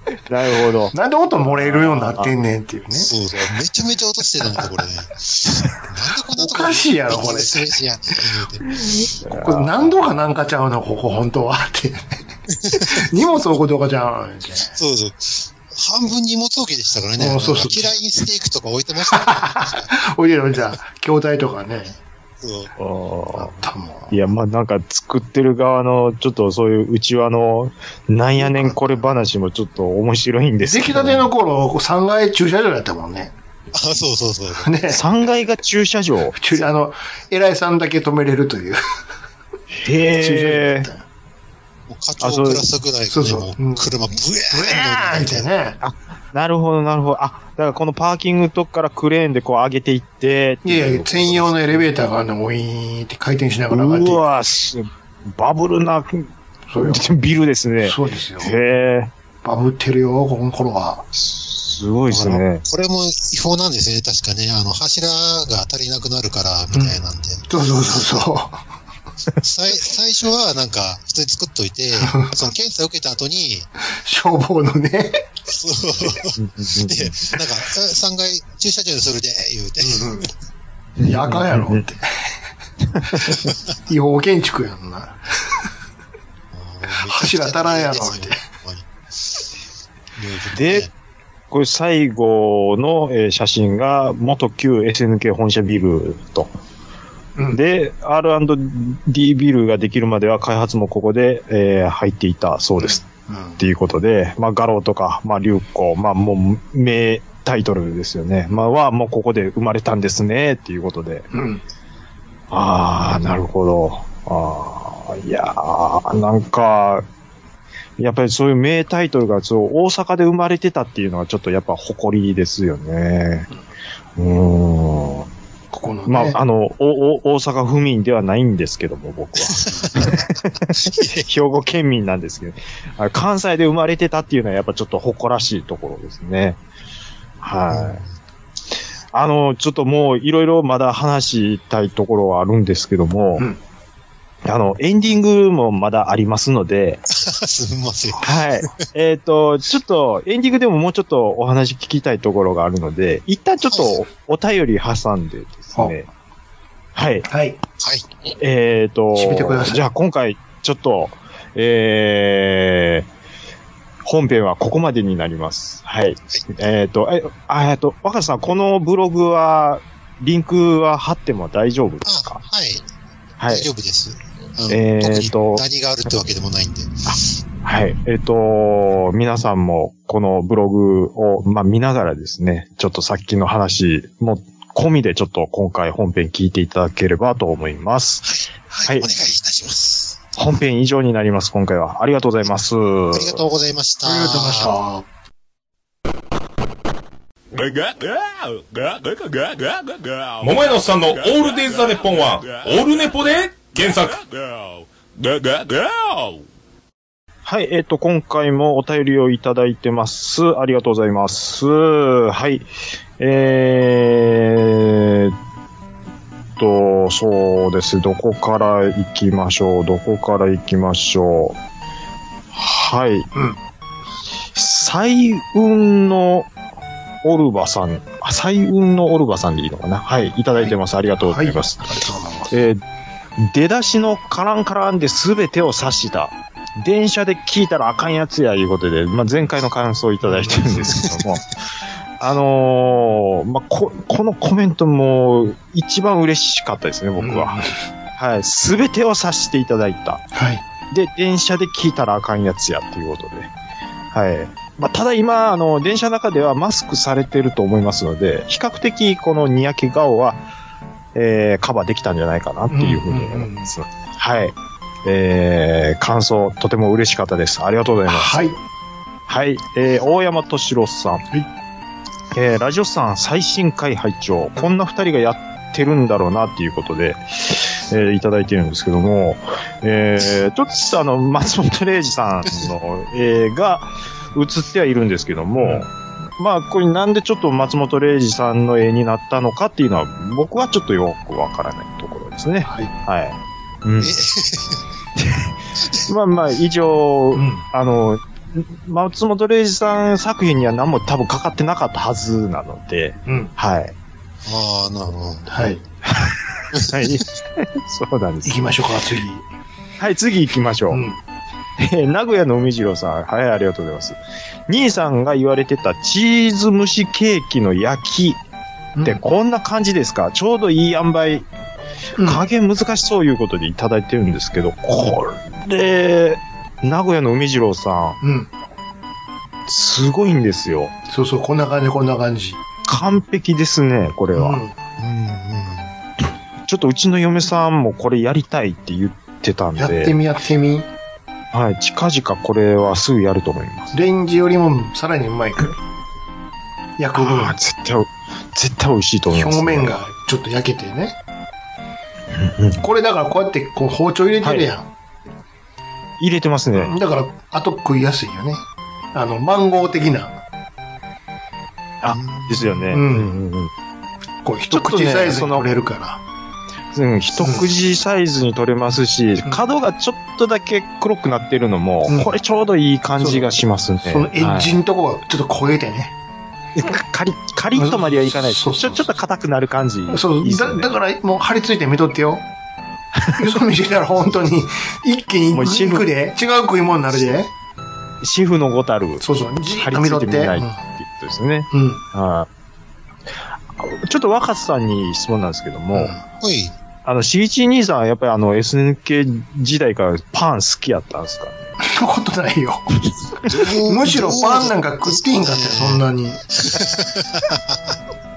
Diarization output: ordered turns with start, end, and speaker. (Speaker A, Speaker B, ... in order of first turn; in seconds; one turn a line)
Speaker A: 0.3-0.9
Speaker B: 0.9-3.1
Speaker A: 1.5-2.3
Speaker C: 3.0-8.8
Speaker B: 6.3-7.7
Speaker A: 8.8-10.2
Speaker B: 9.3-12.1
Speaker C: 12.5-13.1
Speaker B: 12.7-14.7
Speaker C: 14.7-19.9
Speaker B: 17.2-17.9
Speaker B: 19.1-22.0
Speaker C: 22.4-22.7
Speaker A: 22.8-23.6
Speaker B: 23.4-24.1
Speaker A: 24.1-31.3
Speaker B: 28.4-28.8
Speaker B: 30.6-33.3
Speaker C: 33.7-34.7
Speaker B: 34.6-35.0
Speaker A: 34.9-36.4
Speaker B: 36.4-38.8
Speaker A: 39.7-40.9
Speaker B: 40.2-41.0
Speaker C: 41.9-45.5
Speaker A: 42.2-42.6
Speaker B: 43.1-43.9
Speaker B: 44.5-45.8
Speaker A: 45.8-51.8
Speaker B: 50.6-54.2
Speaker A: 53.7-56.3
Speaker B: 56.7-57.1
Speaker A: 56.8-59.1
Speaker B: 57.8-58.5
Speaker B: 59.4-61.0
Speaker A: 61.2-62.6
Speaker C: 62.1-67.4
Speaker B: 66.7-68.6
Speaker C: 69.4-73.7
Speaker B: 72.0-72.4
Speaker B: 74.0-75.2
Speaker C: 75.5-80.3
Speaker A: 76.4-77.2
Speaker B: 79.8-80.3
Speaker A: 81.0-81.8
Speaker B: 81.0-82.1
Speaker A: 82.9-83.4
Speaker B: 83.9-85.2
Speaker C: 86.5-89.4
Speaker B: 87.0-88.4
Speaker C: 90.2-90.9
Speaker A: 90.5-90.9
Speaker A: 91.5-96.5
Speaker A: 97.5-103.0
Speaker B: 102.8-103.6
Speaker A: 103.6-111.3
Speaker B: 111.3-111.6
Speaker A: 112.5-117.0
Speaker A: 118.0-123.5
Speaker A: 124.2-125.3
Speaker B: 125.7-126.4
Speaker A: 126.1-136.6
Speaker C: 129.5-130.3
Speaker C: 130.8-131.3
Speaker A: 137.4-138.0
Speaker C: 137.7-138.1
Speaker A: 139.1-143.5
Speaker A: 144.4-147.0
Speaker C: 147.1-148.4
Speaker A: 148.2-156.1
Speaker A: 156.9-157.3
Speaker B: 157.3-157.6
Speaker C: 157.8-158.1
Speaker A: 158.4-163.1
Speaker B: 159.1-159.8
Speaker A: 164.1-172.4
Speaker C: 172.1-172.8
Speaker A: 173.4-173.7
Speaker C: 173.5-177.0
Speaker A: 174.7-175.6
Speaker A: 177.1-188.2
Speaker C: 188.2-190.2
Speaker A: 190.3-193.4
Speaker C: 193.1-194.7
Speaker B: 194.0-195.1
Speaker D: 197.5-206.4
Speaker A: 207.4-212.7
Speaker A: 213.2-215.3
Speaker A: 216.6-221.6
Speaker A: 222.5-223.3
Speaker A: 224.6-226.5
Speaker A: 227.2-231.8
Speaker B: 230.6-232.5
Speaker A: 232.5-232.8
Speaker A: 233.4-241.4
Speaker B: 240.2-240.9
Speaker A: 242.2-247.6
Speaker B: 247.2-247.8
Speaker A: 248.2-250.3
Speaker B: 250.3-250.6
Speaker A: 250.9-253.5
Speaker A: 254.1-260.4
Speaker A: 261.1-268.4
Speaker B: 262.7-263.7
Speaker B: 268.1-268.6
Speaker A: 269.3-271.2
Speaker A: 272.3-294.1
Speaker B: 285.6-285.9
Speaker B: 292.6-292.9
Speaker C: 294.0-294.8
Speaker A: 295.2-295.5
Speaker A: 296.1-303.9
Speaker B: 297.3-297.6
Speaker B: 303.3-303.5
Speaker C: 304.4-305.7
Speaker B: 305.5-305.8
Speaker A: 306.1-308.7
Speaker B: 308.4-309.4
Speaker A: 310.0-311.1
Speaker B: 310.9-311.2
Speaker A: 311.8-318.4
Speaker B: 318.9-319.2
Speaker A: 319.0-321.5
Speaker B: 322.2-322.4
Speaker A: 322.2-328.2
Speaker B: 328.2-328.5
Speaker A: 329.7-330.9
Speaker B: 331.1-332.6
Speaker A: 332.9-334.6
Speaker B: 334.3-334.8
Speaker C: 335.0-335.9
Speaker A: 336.7-340.1
Speaker B: 339.8-340.9
Speaker A: 341.5-343.9
Speaker B: 343.9-345.7
Speaker B: 347.0-347.6
Speaker A: 347.1-350.0
Speaker B: 349.3-351.1
Speaker A: 352.3-352.8
Speaker B: 352.8-354.9
Speaker A: 354.4-354.7
Speaker A: 356.2-356.9
Speaker B: 356.7-360.4
Speaker A: 362.0-363.7
Speaker C: 362.1-362.8
Speaker B: 362.9-363.3
Speaker B: 364.4-366.2
Speaker A: 364.7-365.7
Speaker A: 366.9-374.8
Speaker B: 367.4-367.7
Speaker B: 372.1-372.3
Speaker B: 373.2-376.1
Speaker A: 376.8-380.9
Speaker B: 377.7-379.1
Speaker B: 380.1-382.4
Speaker A: 383.1-383.4
Speaker B: 383.4-387.5
Speaker A: 385.5-386.1
Speaker A: 388.2-392.5
Speaker B: 389.2-390.8
Speaker B: 391.7-392.0
Speaker A: 393.8-396.1
Speaker B: 395.9-396.2
Speaker C: 396.4-396.7
Speaker A: 397.1-401.7
Speaker B: 401.8-402.9
Speaker C: 403.5-406.0
Speaker B: 403.8-406.4
Speaker C: 406.6-407.9